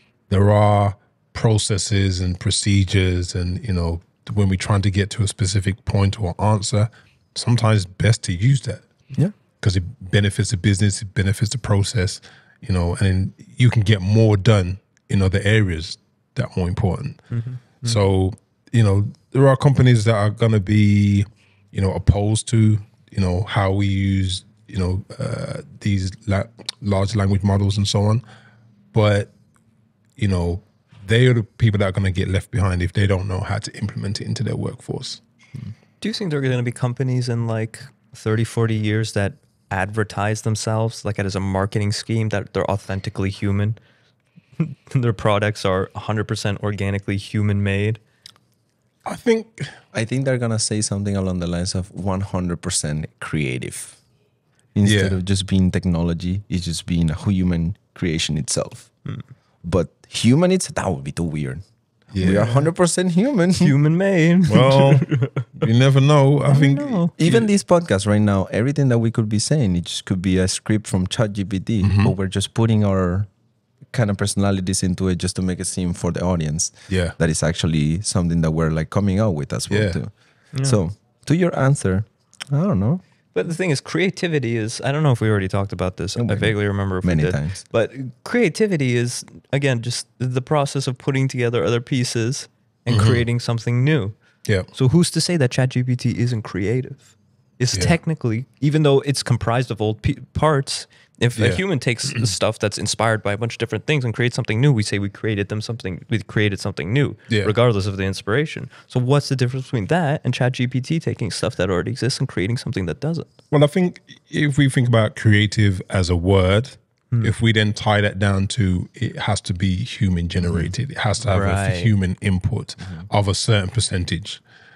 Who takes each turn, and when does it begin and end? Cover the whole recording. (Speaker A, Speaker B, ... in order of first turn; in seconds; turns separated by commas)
Speaker A: 0.3-8.9, Speaker A: 9.6-17.2, Speaker B: 17.3-18.0, Speaker A: 17.8-28.2, Speaker A: 28.9-29.3, Speaker A: 30.2-35.2, Speaker B: 36.0-43.8, Speaker B: 44.6-48.0, Speaker A: 49.0-49.8, Speaker C: 49.9-54.0, Speaker C: 54.7-58.9, Speaker A: 54.8-55.2, Speaker C: 59.6-61.6, Speaker A: 62.1-62.5, Speaker C: 62.2-63.7, Speaker B: 62.2-62.6, Speaker B: 63.6-65.5, Speaker A: 64.5-67.5, Speaker B: 66.5-67.1, Speaker C: 67.2-73.3, Speaker A: 71.8-72.1, Speaker C: 73.9-80.1, Speaker A: 76.9-77.1, Speaker A: 79.7-80.0, Speaker B: 80.5-80.8, Speaker C: 80.6-83.0, Speaker B: 83.3-94.1, Speaker C: 86.2-87.6, Speaker A: 92.9-93.2, Speaker B: 94.7-113.3, Speaker A: 101.4-102.3, Speaker A: 113.5-124.4, Speaker B: 121.3-121.9